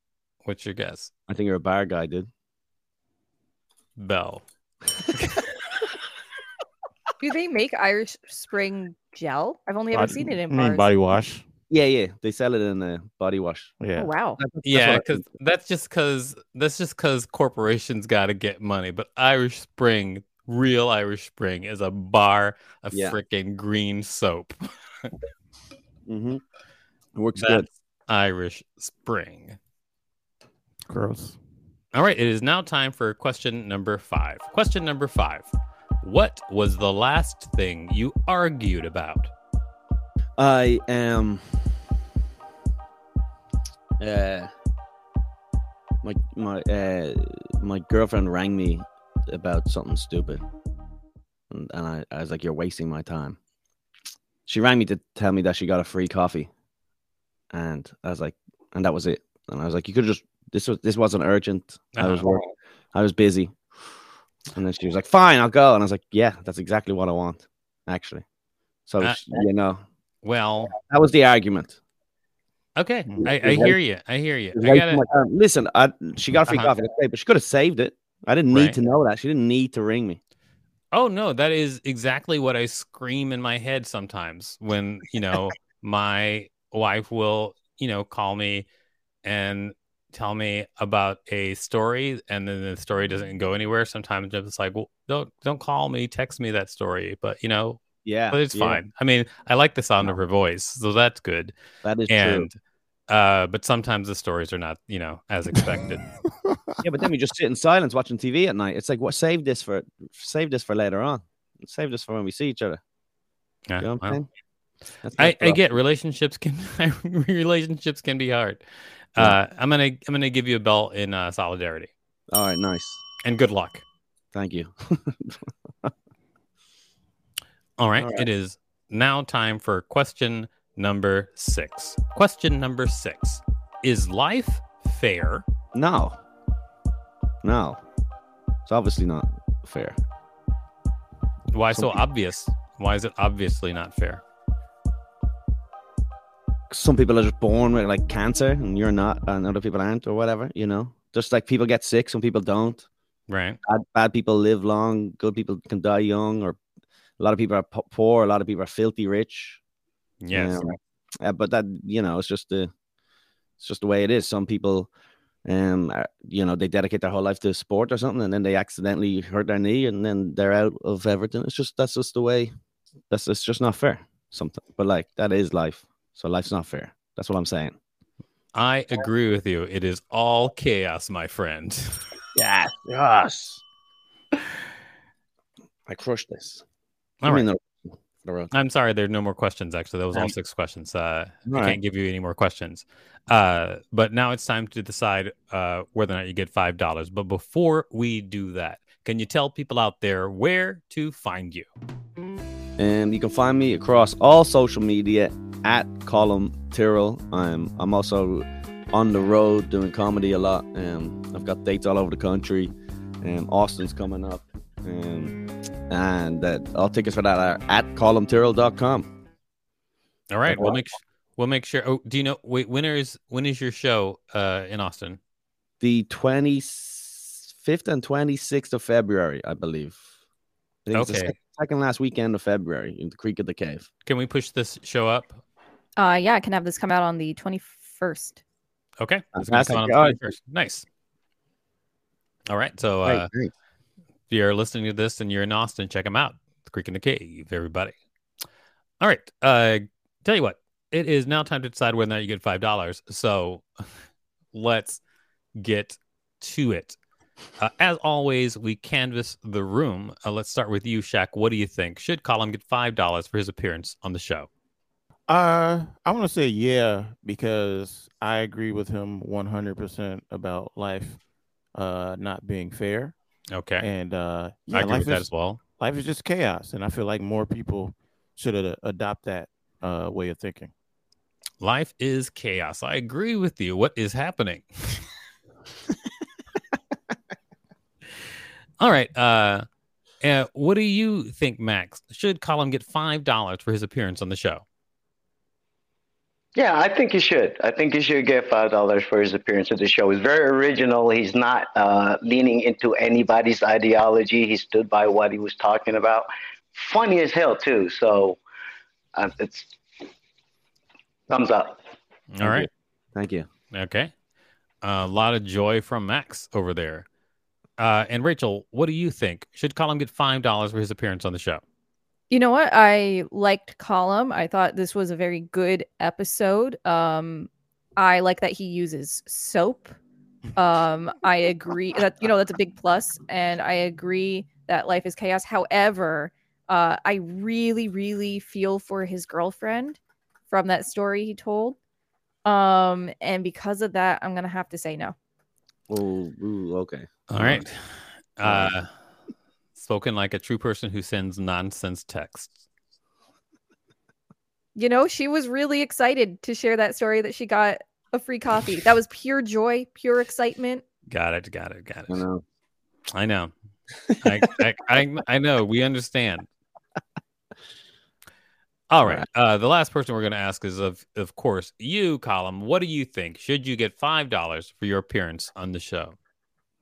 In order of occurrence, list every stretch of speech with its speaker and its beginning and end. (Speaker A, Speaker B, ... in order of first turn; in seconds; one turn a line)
Speaker A: 0.4-1.1
Speaker B: 1.3-2.3
Speaker A: 4.0-4.4
Speaker C: 7.2-10.9
Speaker D: 9.9-11.4
Speaker B: 11.7-13.7
Speaker D: 13.8-14.1
Speaker C: 13.9-14.4
Speaker B: 14.4-15.2
Speaker A: 14.6-25.1
Speaker B: 22.9-23.2
Speaker B: 26.1-26.4
Speaker B: 27.1-27.7
Speaker A: 27.4-29.6
Speaker D: 30.9-31.4
Speaker A: 31.9-35.5
Speaker A: 36.0-39.3
Speaker B: 40.4-41.6
Speaker B: 44.0-44.5
Speaker B: 46.0-50.4
Speaker B: 51.5-53.4
Speaker B: 54.5-56.5
Speaker B: 57.5-62.4
Speaker A: 62.0-62.3
Speaker B: 62.9-63.5
Speaker B: 64.5-68.2
Speaker B: 68.9-69.8
Speaker A: 69.0-69.4
Speaker A: 70.2-70.7
Speaker B: 70.7-71.8
Speaker A: 72.8-75.0
Speaker B: 73.2-73.8
Speaker B: 74.5-80.2
Speaker A: 76.5-76.8
Speaker A: 78.5-78.8
Speaker A: 80.9-88.7
Speaker A: 89.2-101.5
Speaker B: 98.0-98.8
Speaker B: 101.8-102.5
Speaker A: 102.1-102.6
Speaker A: 103.1-106.0
Speaker D: 106.5-106.8
Speaker B: 106.8-112.8
Speaker A: 113.7-114.2
Speaker B: 113.8-114.2
Speaker B: 115.0-115.6
Speaker A: 115.2-118.6
Speaker A: 119.1-121.9
Speaker B: 122.3-123.0
Speaker A: 123.2-123.8
Speaker B: 124.3-125.9
Speaker A: 127.8-135.4
Speaker B: 128.0-128.2
Speaker B: 135.7-136.2
Speaker B: 137.4-137.8
Speaker B: 138.7-139.9
Speaker A: 141.5-144.2
Speaker B: 141.7-142.0
Speaker B: 146.7-152.8
Speaker A: 153.3-153.6
Speaker B: 153.6-156.6
Speaker B: 157.2-159.6
Speaker A: 160.2-160.6
Speaker B: 160.3-162.7
Speaker B: 163.6-164.9
Speaker B: 165.4-172.5
Speaker B: 173.1-177.7
Speaker A: 178.5-182.0
Speaker B: 182.3-183.6
Speaker B: 185.9-186.6
Speaker A: 187.2-187.5
Speaker B: 187.2-188.5
Speaker A: 188.5-201.7
Speaker B: 191.5-191.8
Speaker B: 202.8-219.1
Speaker A: 220.3-225.2
Speaker B: 220.5-220.8
Speaker B: 225.8-230.0
Speaker B: 230.8-233.8
Speaker A: 230.9-231.3
Speaker A: 234.1-235.4
Speaker C: 236.0-238.4
Speaker A: 239.0-240.8
Speaker B: 239.3-240.2
Speaker A: 242.5-243.3
Speaker B: 243.0-243.5
Speaker A: 244.3-247.9
Speaker A: 249.0-253.7
Speaker A: 254.5-255.0
Speaker A: 255.6-257.0
Speaker A: 257.6-264.5
Speaker D: 265.3-271.2
Speaker D: 271.7-273.1
Speaker A: 273.5-273.9
Speaker D: 273.8-280.7
Speaker A: 274.7-275.6
Speaker A: 281.6-285.1
Speaker A: 288.8-289.6
Speaker A: 290.2-294.6
Speaker E: 296.5-308.4
Speaker E: 309.1-309.7
Speaker E: 311.3-311.8
Speaker A: 312.3-312.7
Speaker B: 312.4-313.4
Speaker A: 313.7-314.1
Speaker A: 314.8-317.1
Speaker A: 317.8-321.6
Speaker C: 322.3-330.0
Speaker C: 330.6-341.8
Speaker C: 342.4-345.1
Speaker B: 345.9-347.6
Speaker A: 347.3-348.9
Speaker B: 348.4-348.7
Speaker A: 349.8-352.6
Speaker C: 354.7-360.8
Speaker A: 361.1-362.2
Speaker B: 362.1-362.4
Speaker A: 363.1-363.5
Speaker A: 364.2-366.5
Speaker A: 368.9-376.1